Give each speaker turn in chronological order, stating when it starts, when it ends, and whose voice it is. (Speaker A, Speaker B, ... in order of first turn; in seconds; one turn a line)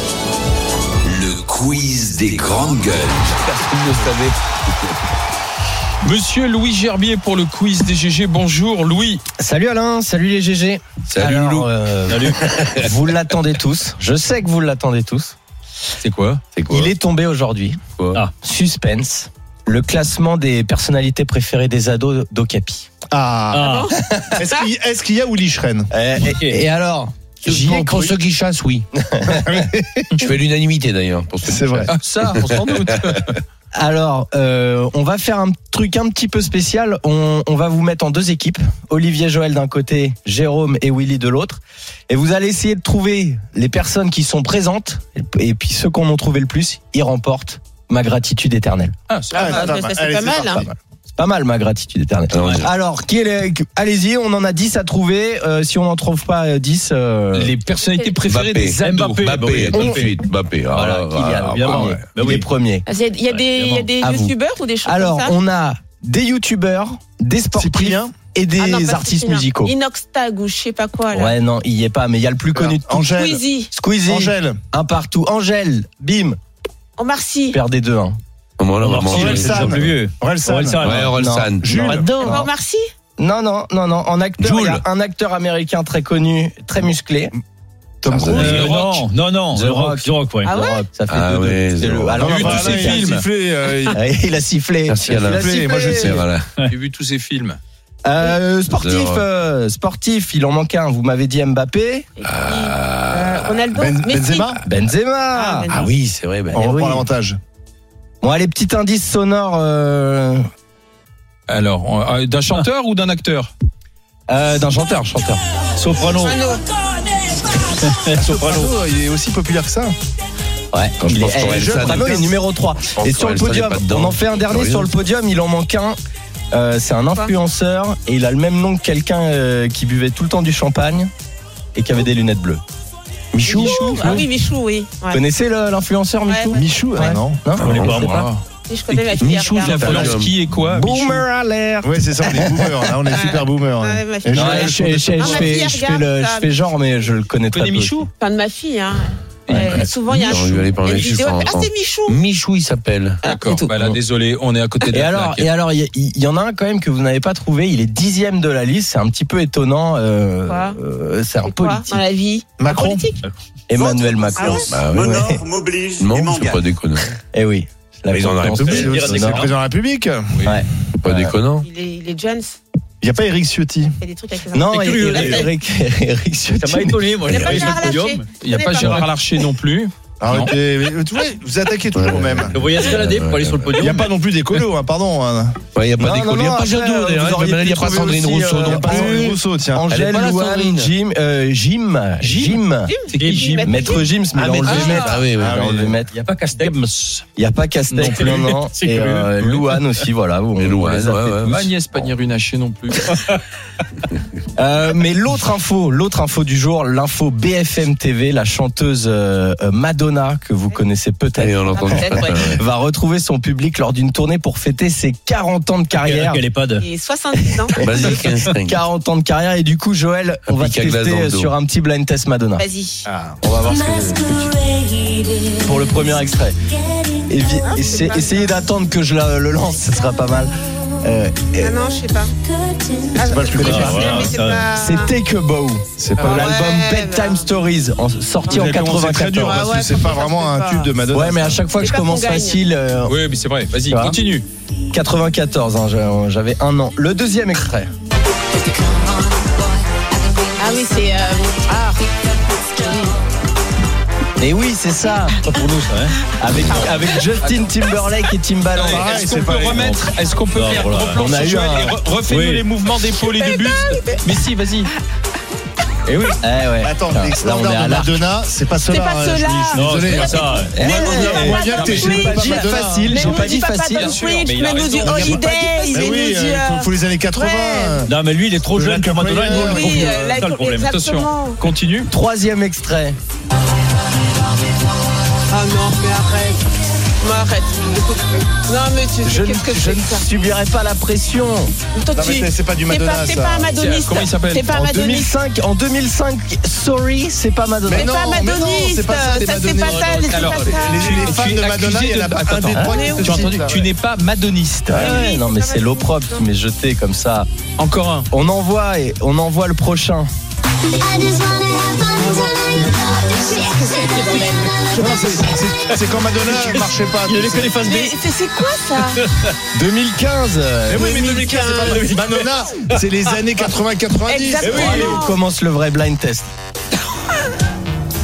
Speaker A: 1.1-1.6
Speaker B: 1.1-3.4
Speaker C: 3.4-4.3
Speaker D: 6.0-9.2
Speaker E: 9.4-15.3
Speaker C: 11.1-12.9
Speaker A: 12.1-12.5
Speaker D: 16.0-16.4
Speaker C: 16.6-16.9
Speaker E: 16.6-17.8
Speaker E: 18.4-22.9
Speaker F: 23.1-23.7
Speaker A: 23.5-23.9
Speaker G: 23.5-24.6
Speaker F: 24.3-25.9
Speaker E: 25.9-28.1
Speaker A: 26.2-26.6
Speaker C: 27.4-28.9
Speaker F: 27.5-28.2
Speaker E: 29.0-29.6
Speaker F: 29.2-30.1
Speaker C: 30.2-32.8
Speaker F: 31.4-31.9
Speaker D: 31.9-33.4
Speaker E: 33.7-48.9
Speaker D: 49.1-49.7
Speaker G: 49.3-50.6
Speaker F: 49.3-50.7
Speaker E: 51.1-57.5
Speaker C: 52.3-52.7
Speaker D: 57.3-59.2
Speaker G: 57.9-58.2
Speaker C: 58.2-62.0
Speaker A: 58.7-60.2
Speaker E: 59.7-60.1
Speaker E: 60.7-62.8
Speaker A: 61.5-62.5
Speaker G: 62.9-65.4
Speaker A: 63.3-63.9
Speaker E: 64.0-69.7
Speaker F: 67.5-68.1
Speaker G: 68.6-71.4
Speaker E: 71.1-73.1
Speaker F: 72.5-73.4
Speaker G: 73.1-73.7
Speaker E: 73.7-76.4
Speaker F: 74.0-74.6
Speaker G: 77.0-77.6
Speaker E: 77.5-78.2
Speaker C: 78.6-79.9
Speaker A: 78.8-81.1
Speaker F: 79.0-81.0
Speaker C: 80.8-81.8
Speaker E: 81.1-82.5
Speaker F: 81.6-82.1
Speaker G: 81.7-82.8
Speaker E: 83.2-87.3
Speaker C: 84.4-84.8
Speaker F: 88.0-88.7
Speaker C: 88.0-88.7
Speaker A: 88.3-90.6
Speaker D: 88.5-89.1
Speaker E: 89.5-93.1
Speaker G: 90.4-90.8
Speaker C: 91.1-92.3
Speaker F: 92.2-94.0
Speaker D: 92.2-93.2
Speaker E: 93.9-96.2
Speaker C: 94.9-96.5
Speaker F: 95.0-96.2
Speaker D: 96.6-97.6
Speaker E: 98.0-102.1
Speaker C: 98.7-99.2
Speaker G: 102.2-104.5
Speaker C: 102.2-103.7
Speaker F: 103.7-104.6
Speaker E: 104.6-105.7
Speaker G: 105.3-105.9
Speaker C: 105.7-106.6
Speaker E: 106.5-107.0
Speaker F: 106.5-107.4
Speaker E: 108.2-110.4
Speaker D: 111.5-113.5
Speaker E: 114.3-115.4
Speaker A: 115.8-116.4
Speaker G: 116.1-116.6
Speaker A: 117.8-118.7
Speaker F: 118.0-119.9
Speaker E: 120.7-126.0
Speaker C: 121.0-122.1
Speaker F: 121.3-122.3
Speaker C: 123.0-124.9
Speaker E: 126.5-131.1
Speaker E: 131.7-132.6
Speaker C: 133.3-134.1
Speaker E: 133.4-134.2
Speaker G: 133.4-135.2
Speaker E: 135.1-138.1
Speaker G: 136.2-137.2
Speaker F: 136.6-137.4
Speaker D: 137.5-138.4
Speaker A: 137.7-138.3
Speaker G: 138.7-140.1
Speaker C: 139.1-140.3
Speaker D: 139.6-141.2
Speaker F: 139.7-140.1
Speaker E: 140.7-142.9
Speaker F: 141.8-145.1
Speaker G: 143.1-146.6
Speaker E: 144.3-148.0
Speaker D: 144.6-145.5
Speaker D: 147.5-148.1
Speaker G: 148.2-152.2
Speaker D: 149.5-149.9
Speaker C: 149.5-153.2
Speaker D: 153.2-155.5
Speaker E: 153.3-154.0
Speaker E: 154.9-162.0
Speaker G: 160.5-160.8
Speaker G: 161.4-163.2
Speaker F: 162.6-163.0
Speaker E: 163.7-165.4
Speaker G: 163.8-164.7
Speaker H: 164.6-166.6
Speaker C: 164.7-165.1
Speaker C: 166.0-167.1
Speaker E: 167.3-169.5
Speaker C: 168.1-168.9
Speaker A: 168.6-169.5
Speaker F: 168.6-170.3
Speaker E: 170.4-171.3
Speaker C: 171.0-171.7
Speaker G: 171.6-172.6
Speaker F: 173.0-173.9
Speaker G: 174.0-175.5
Speaker E: 174.5-177.7
Speaker A: 174.7-175.5
Speaker A: 176.6-178.3
Speaker G: 177.3-179.1
Speaker D: 178.4-180.5
Speaker F: 180.2-182.8
Speaker C: 181.9-183.8
Speaker A: 182.5-184.6
Speaker F: 183.7-185.6
Speaker C: 185.7-189.3
Speaker E: 185.9-192.9
Speaker F: 187.8-189.8
Speaker C: 189.9-190.9
Speaker D: 192.2-193.9
Speaker G: 192.9-194.1
Speaker A: 193.1-193.5
Speaker E: 193.6-196.2
Speaker D: 194.5-195.2
Speaker C: 194.6-195.7
Speaker F: 194.7-196.0
Speaker A: 196.1-197.2
Speaker E: 197.3-201.4
Speaker A: 197.9-199.8
Speaker D: 198.0-198.5
Speaker C: 200.6-201.7
Speaker D: 201.4-203.2
Speaker E: 204.6-216.4
Speaker C: 211.4-212.6
Speaker G: 211.7-212.5
Speaker A: 215.9-216.8
Speaker G: 216.8-218.1
Speaker E: 217.8-222.7
Speaker C: 217.8-218.8
Speaker C: 220.5-221.5
Speaker G: 222.6-223.1
Speaker F: 223.1-223.5
Speaker E: 223.4-224.8
Speaker E: 225.4-226.5
Speaker E: 227.1-231.7
Speaker G: 227.7-228.5
Speaker G: 231.6-232.3
Speaker G: 233.0-235.1
Speaker E: 233.3-239.7
Speaker F: 233.4-234.2
Speaker A: 233.6-234.7
Speaker F: 236.0-236.5
Speaker G: 236.2-237.4
Speaker G: 238.5-238.7
Speaker F: 238.5-241.6
Speaker G: 239.3-240.9
Speaker E: 241.1-243.2
Speaker G: 241.8-242.6
Speaker D: 243.0-244.4
Speaker E: 243.9-244.2
Speaker E: 244.9-247.9
Speaker G: 250.6-252.0
Speaker G: 252.8-253.2
Speaker E: 254.4-255.4
Speaker A: 255.4-257.0
Speaker E: 256.4-259.2
Speaker D: 256.7-257.6
Speaker D: 258.7-264.9
Speaker F: 258.9-260.0
Speaker A: 260.4-261.2
Speaker E: 261.0-262.0
Speaker A: 262.2-262.7
Speaker G: 263.2-264.3
Speaker D: 266.1-266.4
Speaker E: 266.4-268.2
Speaker F: 266.8-273.2
Speaker G: 268.9-278.1
Speaker A: 269.7-270.7
Speaker E: 270.7-274.2
Speaker D: 273.1-275.4
Speaker A: 274.4-275.9
Speaker F: 275.1-275.4
Speaker F: 275.9-278.1
Speaker A: 278.1-280.9
Speaker F: 278.7-280.2
Speaker G: 279.5-281.6
Speaker D: 280.9-282.1
Speaker E: 282.1-283.1
Speaker G: 285.5-286.6
Speaker G: 287.2-290.2
Speaker E: 289.2-291.7
Speaker G: 291.9-295.3
Speaker F: 292.1-293.7
Speaker D: 293.7-294.7
Speaker E: 294.7-298.2
Speaker F: 297.8-303.8
Speaker G: 297.9-301.3
Speaker D: 300.2-305.1
Speaker G: 302.8-303.5
Speaker E: 304.9-307.5
Speaker G: 304.9-306.5
Speaker D: 307.8-308.3
Speaker E: 308.3-310.3
Speaker G: 312.1-312.7
Speaker G: 313.4-315.2
Speaker A: 314.1-314.8
Speaker F: 314.9-317.8
Speaker A: 315.9-318.1
Speaker G: 317.8-319.2
Speaker A: 319.1-319.5
Speaker E: 319.7-321.1
Speaker G: 320.9-322.1
Speaker F: 320.9-324.8
Speaker A: 321.1-323.1
Speaker G: 324.3-325.4
Speaker A: 324.6-325.1
Speaker E: 324.6-326.5